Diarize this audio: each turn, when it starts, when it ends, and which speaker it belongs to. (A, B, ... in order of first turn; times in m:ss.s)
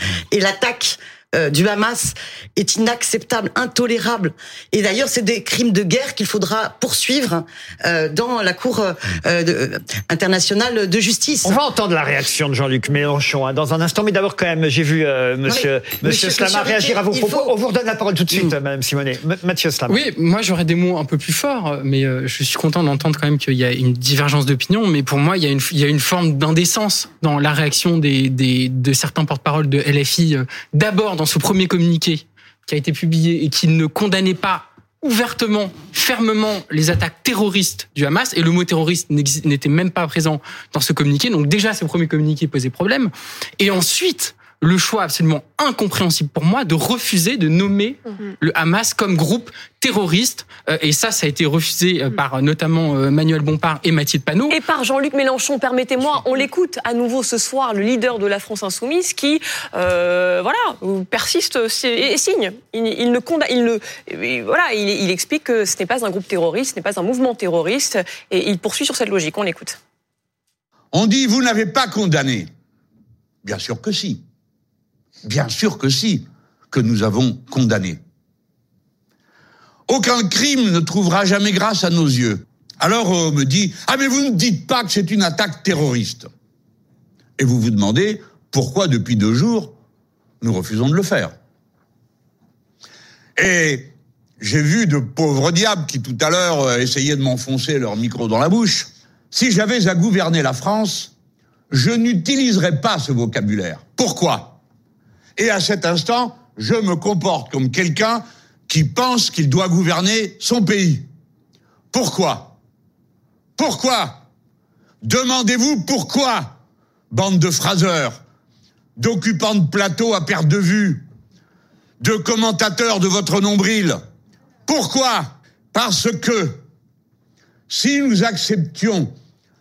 0:00.3-0:11.6 A
0:11.4-0:20.0 B
0:15.5-0:17.5 A
0:19.9-0:54.6 C
0:54.5-1:09.8 D
1:10.9-1:12.5 E
1:13.4-1:14.2 E
1:15.2-1:18.0 E
1:19.9-1:26.3 E
1:27.4-1:29.7 E
1:30.4-1:31.3 E
1:33.4-1:41.1 E
1:41.7-1:44.6 E
1:45.4-1:51.0 E
1:51.9-1:52.6 E
1:53.6-1:54.2 E
1:55.0-1:56.6 E
1:57.1-1:58.2 E
1:59.0-2:01.0 E
2:02.0-2:04.0 E
2:04.7-2:06.6 E
2:07.7-2:09.1 E